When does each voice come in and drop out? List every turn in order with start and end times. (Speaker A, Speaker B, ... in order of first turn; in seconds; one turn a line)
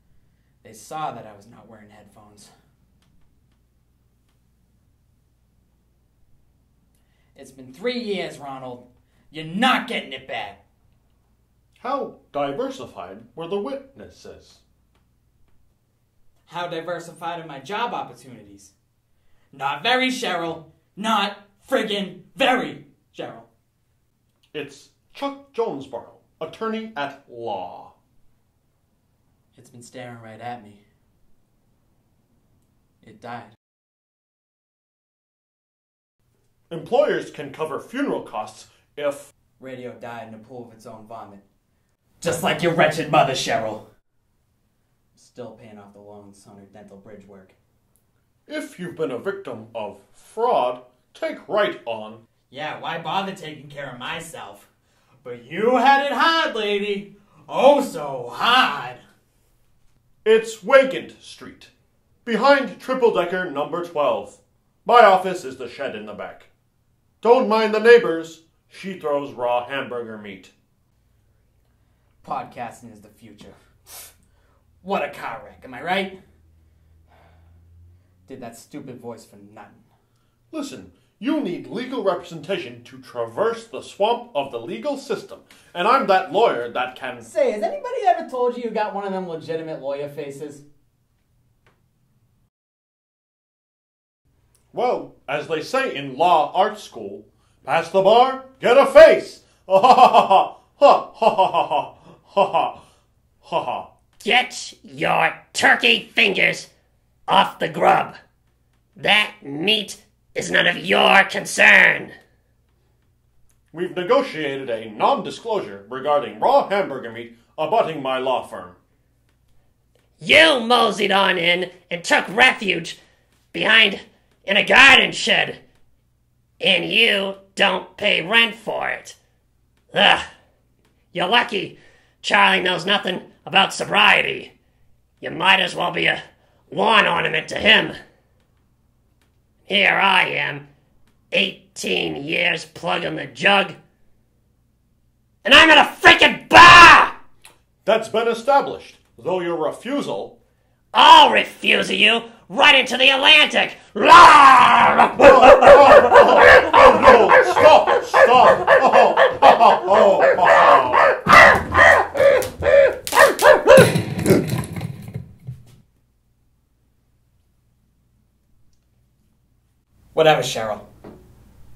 Speaker A: 0.6-2.5
Speaker A: 7.3-10.6
Speaker B: 11.8-14.6
Speaker A: 16.5-18.7
Speaker A: 19.5-23.5
Speaker B: 24.5-27.9
Speaker A: 29.5-30.8
Speaker A: 33.0-33.5
Speaker B: 36.7-39.3
Speaker A: 39.6-41.4
Speaker A: 42.2-43.9
Speaker A: 45.1-47.6
Speaker B: 48.5-52.2
Speaker A: 52.5-54.7
Speaker A: 55.2-59.0
Speaker B: 60.2-61.7
Speaker B: 62.2-66.5
Speaker B: 67.2-70.5
Speaker A: 72.2-74.1
Speaker A: 74.8-76.2
Speaker A: 78.3-79.8
Speaker B: 80.5-87.3
Speaker A: 87.2-90.7
Speaker B: 94.7-102.8
Speaker B: 103.4-103.9
Speaker C: 104.2-106.7
Speaker C: 107.3-108.2
Speaker C: 109.0-112.2
Speaker B: 113.7-118.8
Speaker C: 120.2-123.0
Speaker C: 123.5-125.6
Speaker C: 126.6-129.2
Speaker C: 129.9-130.2
Speaker C: 131.1-134.5
Speaker C: 135.2-136.2
Speaker C: 136.7-138.0
Speaker C: 139.7-140.6
Speaker C: 141.3-143.8
Speaker C: 145.4-147.2
Speaker B: 147.8-150.4
Speaker C: 150.9-155.9
Speaker B: 155.2-161.2
Speaker A: 170.1-170.9